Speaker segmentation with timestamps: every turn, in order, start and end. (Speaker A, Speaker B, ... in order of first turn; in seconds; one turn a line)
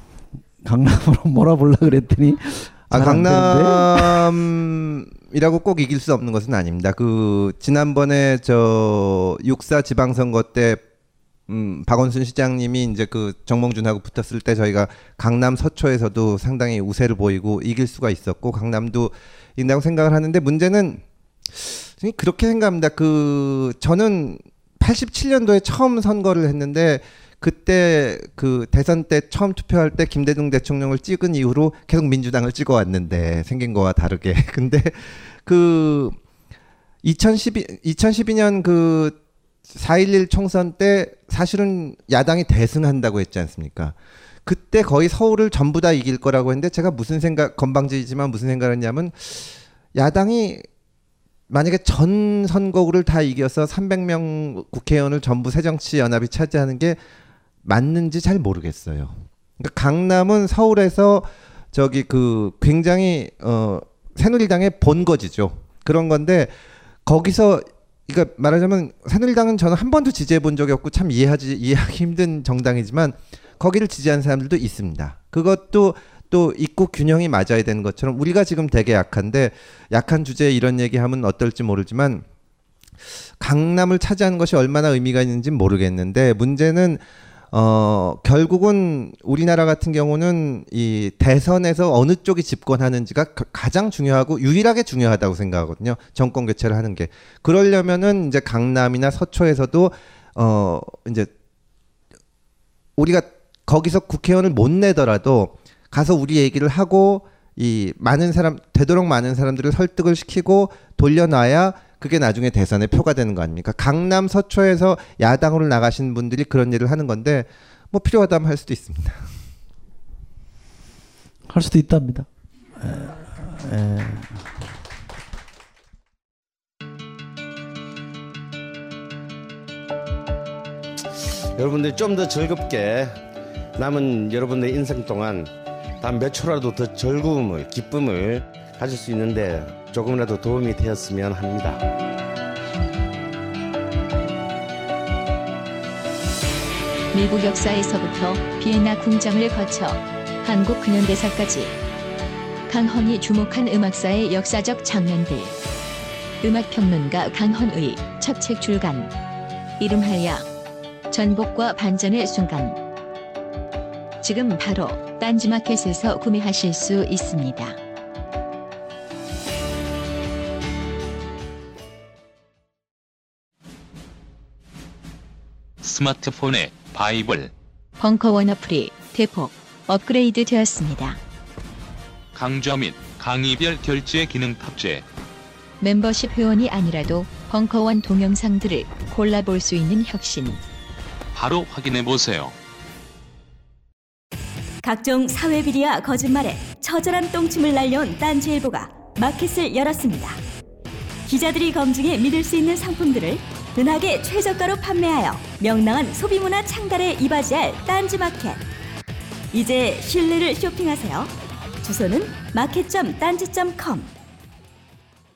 Speaker A: 0.6-4.3
Speaker B: 2.9-10.8
Speaker B: 11.5-36.2
Speaker B: 37.0-39.1
Speaker B: 39.7-50.6
Speaker B: 51.5-57.0
Speaker B: 57.6-66.5
Speaker B: 67.0-82.2
Speaker B: 83.4-101.3
Speaker B: 103.0-119.2
Speaker A: 121.5-122.3
Speaker A: 122.8-124.5
Speaker C: 131.5-133.2
Speaker C: 133.8-141.8
Speaker D: 147.1-151.8
Speaker D: 152.7-155.5
Speaker D: 156.4-159.1
Speaker D: 159.8-160.4
Speaker D: 161.1-162.8
Speaker D: 164.2-167.8
Speaker E: 175.8-177.5
Speaker D: 178.0-181.2
Speaker E: 182.3-185.1
Speaker D: 185.8-190.6
Speaker E: 191.3-192.6
Speaker F: 194.8-200.4
Speaker F: 201.3-208.6
Speaker F: 209.5-214.1